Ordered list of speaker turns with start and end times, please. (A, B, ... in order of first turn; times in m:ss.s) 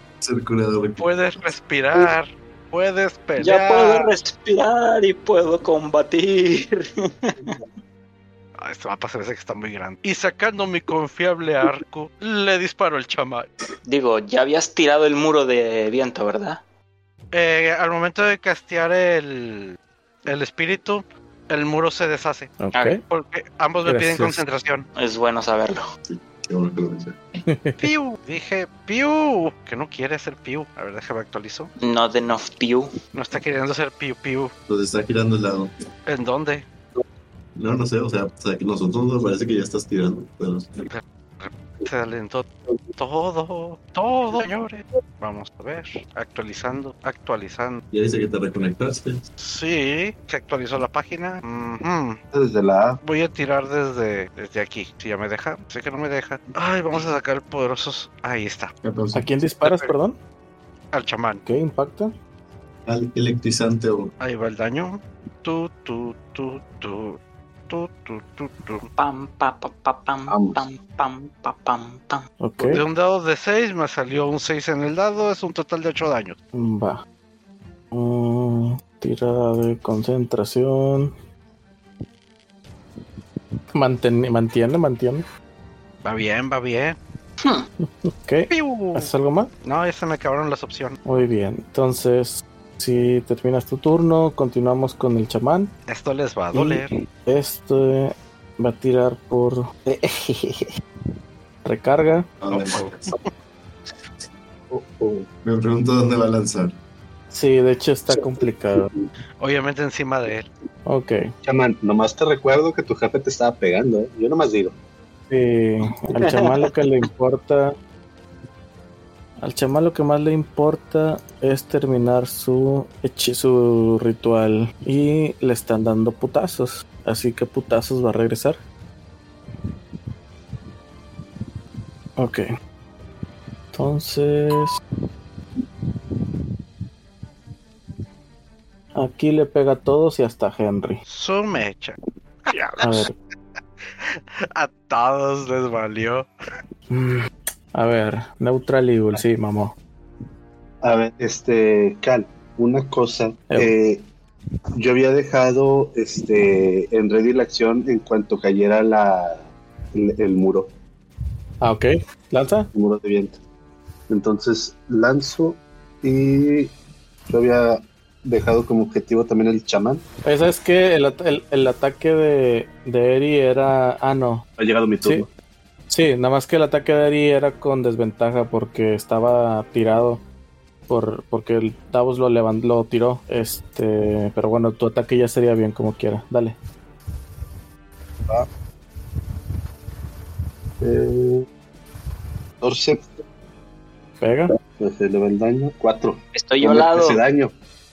0:00.2-0:01.0 A
0:01.0-0:04.2 B
0:03.4-0:07.5 C
0:08.6-0:13.5 B
0:13.8-0:16.6 C
0:17.3-0:24.9 B
0:22.6-0:23.0 D
0:23.8-0:24.4 D
0:25.0-0:25.8 C
0:26.1-0:27.2 A
0:27.5-0:27.9 D
0:27.8-0:31.7 B
0:31.8-0:32.9 C
0:33.1-0:34.5 B
0:34.7-0:35.7 A
0:36.1-0:36.7 B
0:37.6-0:40.9 A
0:40.8-0:47.8 B
0:47.9-0:49.2 A
0:49.4-0:52.2 B
0:52.3-0:53.0 E
0:53.0-0:58.7 B
0:58.8-0:59.3 A
0:59.2-1:00.2 D
0:59.6-0:59.9 B
1:00.9-1:01.4 B
1:01.5-1:02.1 D
1:02.9-1:04.1 A
1:04.2-1:08.9 B
1:09.0-1:12.2 C
1:10.3-1:10.6 E
1:12.4-1:12.8 D
1:12.6-1:16.4 B
1:16.5-1:17.0 D
1:17.9-1:21.1 D
1:23.8-1:25.3 D
1:26.0-1:27.0 B
1:27.8-1:29.5 D
1:28.5-1:29.1 B
1:29.6-1:31.0 B
1:31.1-1:35.7 D
1:35.9-1:36.9 B
1:36.5-1:40.5 D
1:41.6-1:42.3 D
1:42.4-1:43.1 A
1:42.5-1:43.3 B
1:44.7-1:45.3 E
1:45.4-1:46.8 A
1:47.3-1:48.9 D
1:49.4-1:50.5 B
1:50.9-1:51.3 D
1:51.4-1:54.8 E
1:55.3-1:57.8 D
1:59.4-2:08.6 D
2:12.2-2:12.5 D
2:13.7-2:14.7 D
2:19.0-2:21.0 D
2:21.1-2:23.1 B
2:22.8-2:23.1 D
2:24.0-2:26.3 B
2:26.9-2:29.7 D
2:30.8-2:34.1 E
2:34.8-2:40.7 E
2:41.6-2:42.7 D
2:42.7-2:43.4 E
2:44.1-2:46.8 E
2:47.3-2:50.0 E
2:50.2-2:54.5 D
2:54.6-2:55.3 E
2:55.9-3:00.2 D
3:00.9-3:06.6 D
3:10.8-3:11.5 E
3:12.6-3:13.0 E
3:14.2-3:14.5 D
3:14.8-3:17.5 E
3:16.4-3:17.2 C